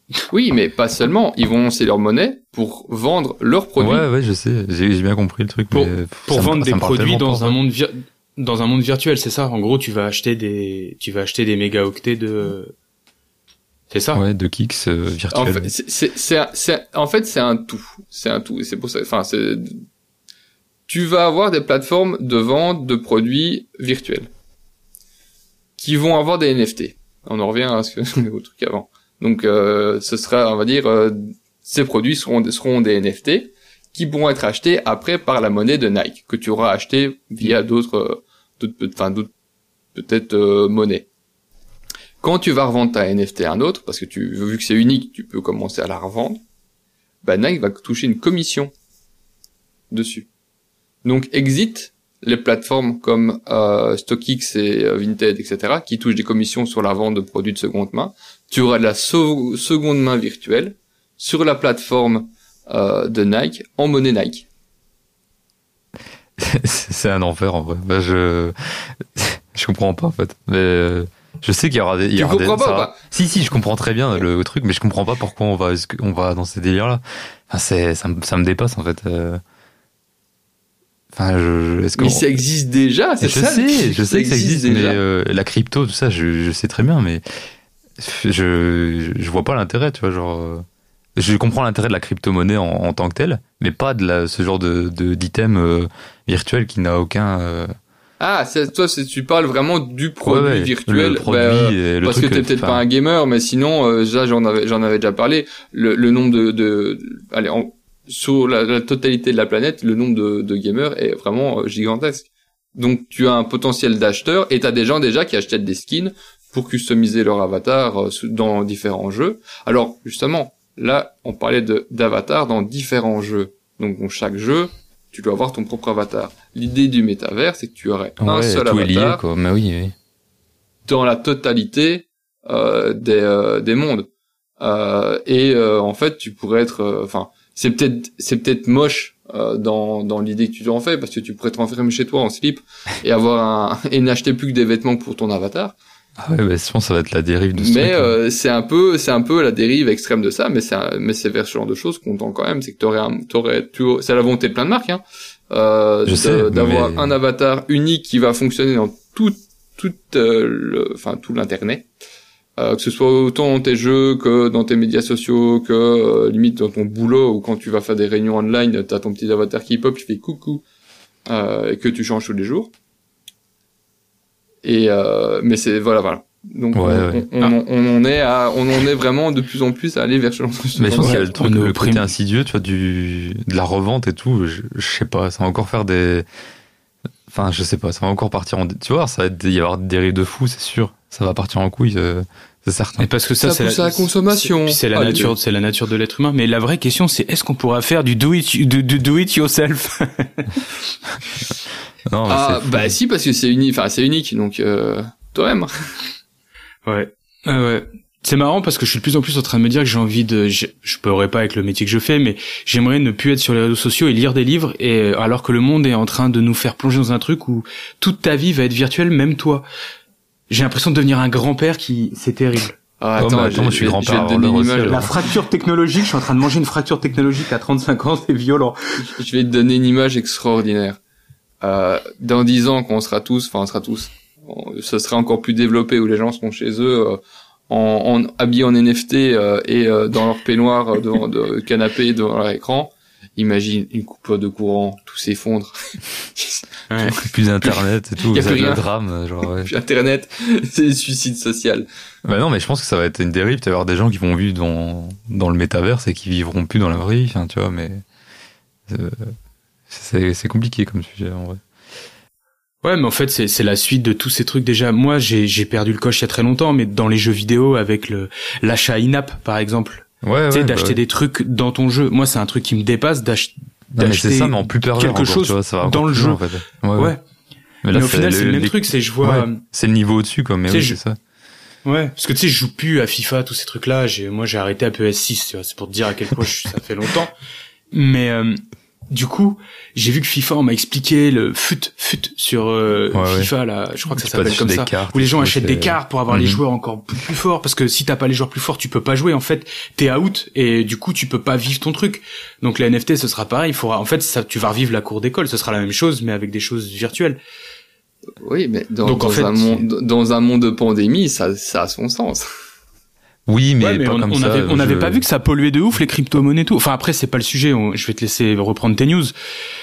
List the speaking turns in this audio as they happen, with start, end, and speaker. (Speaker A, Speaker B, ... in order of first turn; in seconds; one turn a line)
Speaker A: 0.3-4.0
Speaker B: 3.8-7.6
Speaker C: 5.7-12.7
Speaker C: 13.9-14.2
Speaker B: 14.1-15.7
Speaker A: 15.3-19.8
Speaker A: 20.9-24.3
Speaker A: 25.8-39.3
Speaker A: 39.9-41.1
Speaker A: 42.2-46.4
Speaker A: 47.2-48.7
Speaker A: 49.9-50.3
Speaker A: 51.0-64.5
Speaker B: 66.4-79.4
Speaker A: 72.1-72.9
Speaker B: 81.1-82.3
Speaker A: 82.0-85.0
Speaker B: 83.2-87.2
Speaker B: 88.0-90.6
Speaker B: 91.2-97.7
Speaker A: 98.2-129.2
Speaker B: 100.2-102.8
Speaker B: 128.2-129.9
Speaker A: 130.8-134.1
Speaker A: 134.6-145.8
Speaker B: 146.2-148.1
Speaker A: 147.6-161.8
Speaker B: 156.1-157.2
Speaker A: 162.6-170.6
Speaker A: 171.2-172.7
Speaker A: 174.6-181.3
Speaker B: 176.7-177.6
Speaker B: 180.8-186.2
Speaker C: 181.0-182.1
Speaker B: 187.3-193.1
Speaker C: 193.0-200.6
Speaker A: 193.4-195.3
Speaker B: 202.1-202.9
Speaker A: 202.3-206.0
Speaker C: 206.8-219.7
Speaker C: 220.5-222.8
Speaker A: 223.0-225.2
Speaker B: 223.2-225.1
Speaker C: 224.8-229.1
Speaker A: 229.1-231.0
Speaker A: 231.6-246.6
Speaker C: 246.9-247.2
Speaker B: 247.1-249.7
Speaker A: 247.7-248.8
Speaker A: 249.7-251.8
Speaker B: 252.2-258.0
Speaker B: 258.9-259.3
Speaker B: 259.9-261.6
Speaker C: 262.8-276.4
Speaker B: 270.2-271.0
Speaker B: 274.0-277.1
Speaker C: 276.9-277.2
Speaker B: 277.8-281.2
Speaker C: 277.9-279.6
Speaker C: 280.7-281.0
Speaker C: 281.8-287.3
Speaker C: 287.9-307.4
Speaker B: 293.1-293.5
Speaker B: 294.2-296.6
Speaker A: 308.4-312.5
Speaker C: 309.0-309.9
Speaker B: 313.5-315.2
Speaker C: 313.8-319.3